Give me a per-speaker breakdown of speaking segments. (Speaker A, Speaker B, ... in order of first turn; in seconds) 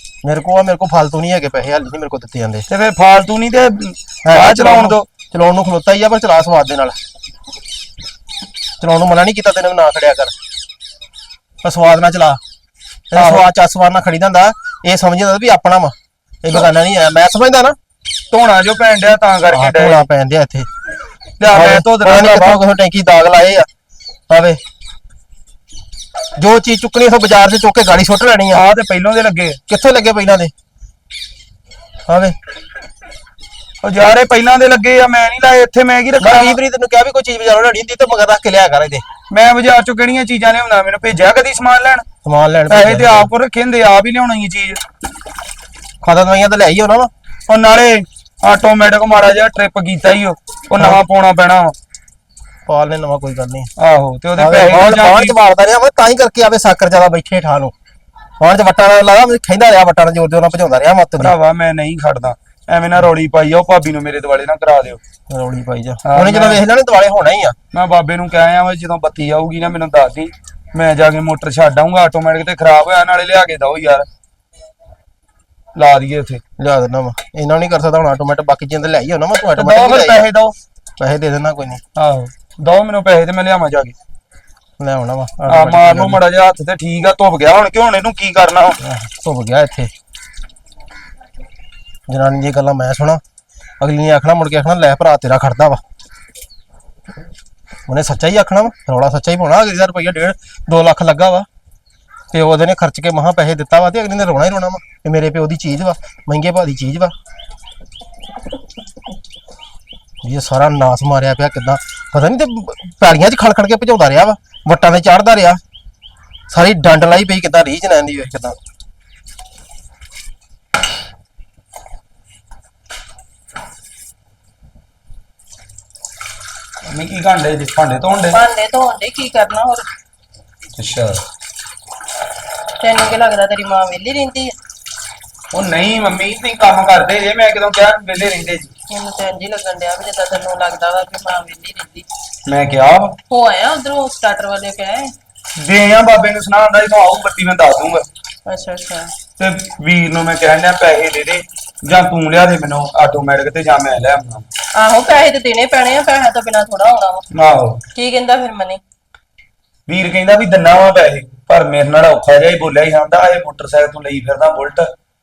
Speaker A: 0.2-2.7, 4.2-7.0, 8.8-10.3, 11.6-12.4, 13.1-17.8, 19.5-20.7, 21.5-23.7, 24.3-24.6, 26.4-28.6, 29.7-30.5, 32.1-32.4, 36.2-39.0, 42.2-43.3, 46.0-47.1, 52.6-53.7, 54.4-57.7, 58.4-61.3, 65.3-67.6, 76.6-80.2, 81.0-81.8, 84.8-86.2, 88.8-89.9, 92.1-93.2, 93.8-95.8, 97.9-101.5, 102.3-107.1, 110.2-115.6, 116.5-118.6
Speaker B: 2.7-5.1, 13.2-13.5, 18.3-20.1, 21.4-22.6, 28.5-29.6, 33.8-36.6, 39.3-42.0, 42.7-44.8, 47.5-51.8, 53.8-55.4, 61.2-65.0, 66.1-66.6, 67.7-74.1, 75.8-76.4, 79.5-80.5, 82.0-84.0, 85.5-88.8, 126.9-128.4, 130.8-131.2, 135.5-138.7, 142.5-143.2, 145.6-148.0, 149.4-154.4, 157.3-157.8, 159.9-164.9
Speaker C: 128.3-129.9, 132.8-134.5, 138.9-142.1, 143.3-145.1, 148.5-149.1, 154.8-157.2, 157.9-158.8